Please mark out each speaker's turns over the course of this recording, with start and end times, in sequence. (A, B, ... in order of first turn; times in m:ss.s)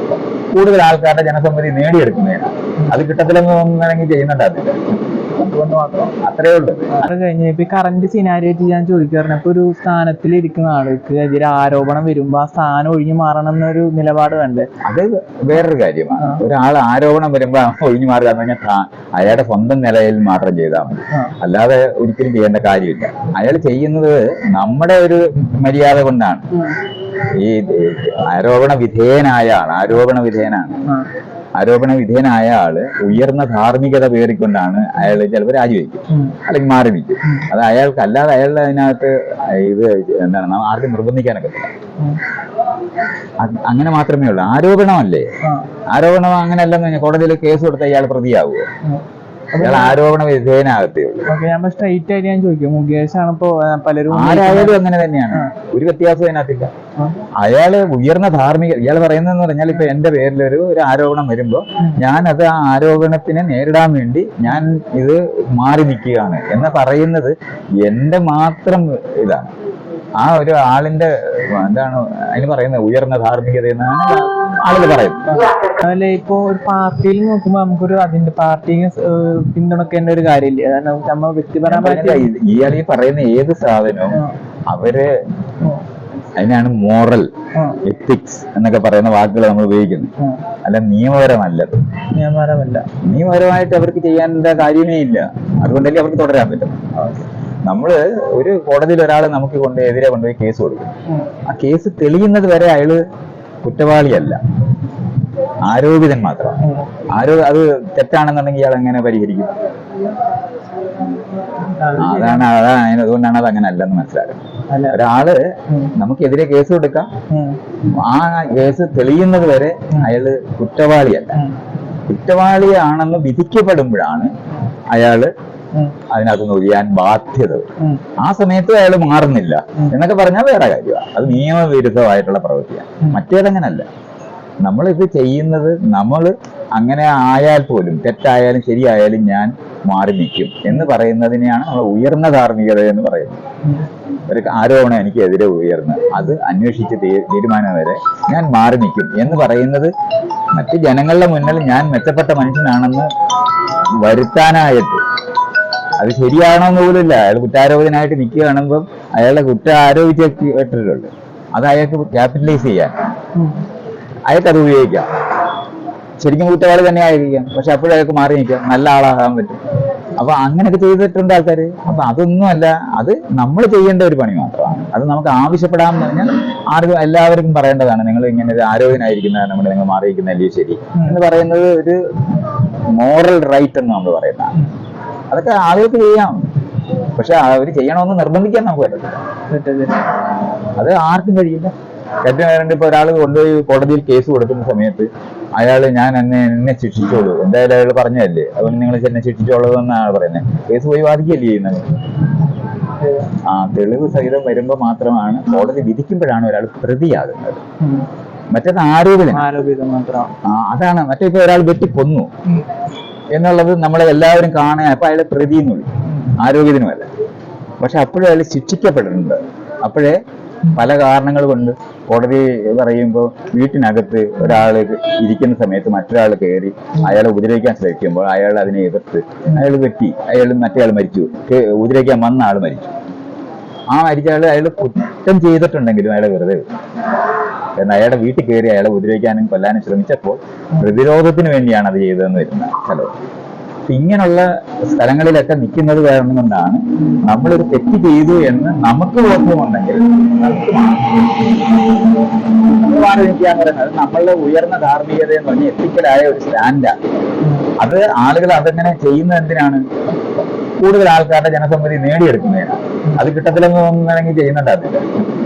0:00.5-0:04.8 A
0:05.4-0:06.1 B
0:06.0-0:07.0 A
0:06.9-0:14.7 B
0:14.8-0:26.5 A
0:26.5-0:26.8 B
0:27.2-0:30.8 A
0:31.6-0:41.7 A
0:36.1-0:36.4 B
0:43.4-0:45.3 A
0:45.4-0:45.7 B
0:45.9-0:48.7 A
0:48.8-0:50.0 B
0:49.6-0:51.3 A
0:51.3-0:55.5 B
0:54.1-0:56.7 A
0:57.0-0:57.2 B
0:57.4-1:09.5 A
1:10.2-1:15.4 A
1:15.3-1:22.3 B
1:21.7-1:25.1 A
1:26.4-1:27.3 A
1:27.6-1:27.8 B
1:27.8-1:31.8 A
1:30.2-1:30.4 B
1:32.1-1:32.9 B
1:33.0-1:40.9 A
1:41.5-1:43.0 A
1:43.6-1:44.4 A
1:45.6-1:49.5 A
1:46.6-1:46.9 B
1:51.6-1:52.5 B
1:52.0-1:57.1 A
1:54.7-1:55.0 B
1:55.7-1:55.9 B
1:57.3-1:57.6 B
1:57.9-2:01.4 A
2:01.3-2:01.6 B
2:02.1-2:04.3 A
2:04.9-2:05.3 A
2:05.7-2:06.0 B
2:06.1-2:07.7 A
2:07.8-2:08.0 B
2:08.2-2:13.9 A
2:14.6-2:23.4 A
2:24.3-2:29.9 A
2:30.5-2:33.1 A
2:34.0-2:35.0 A
2:36.0-2:43.1 A
2:43.4-2:43.6 B
2:44.3-2:45.1 A
2:46.2-2:49.6 A
2:50.2-3:02.0 A
3:02.9-3:04.6 A
3:05.3-3:06.5 A
3:07.2-3:09.2 A
3:09.5-3:10.1 B
3:10.8-3:11.7 A
3:12.2-3:21.9 A
3:23.0-3:23.4 B
3:23.4-3:27.6 A
3:27.8-3:28.1 B
3:28.5-3:29.5 A
3:29.3-3:30.4 B
3:30.4-3:32.3 A
3:33.3-3:37.1 A
3:37.8-3:52.9 A
3:53.9-3:56.6 A
3:57.8-4:03.1 A
4:03.9-4:11.5 A
4:12.6-4:17.0 A
4:17.4-4:17.7 B
4:17.8-4:19.8 A
4:20.8-4:25.1 A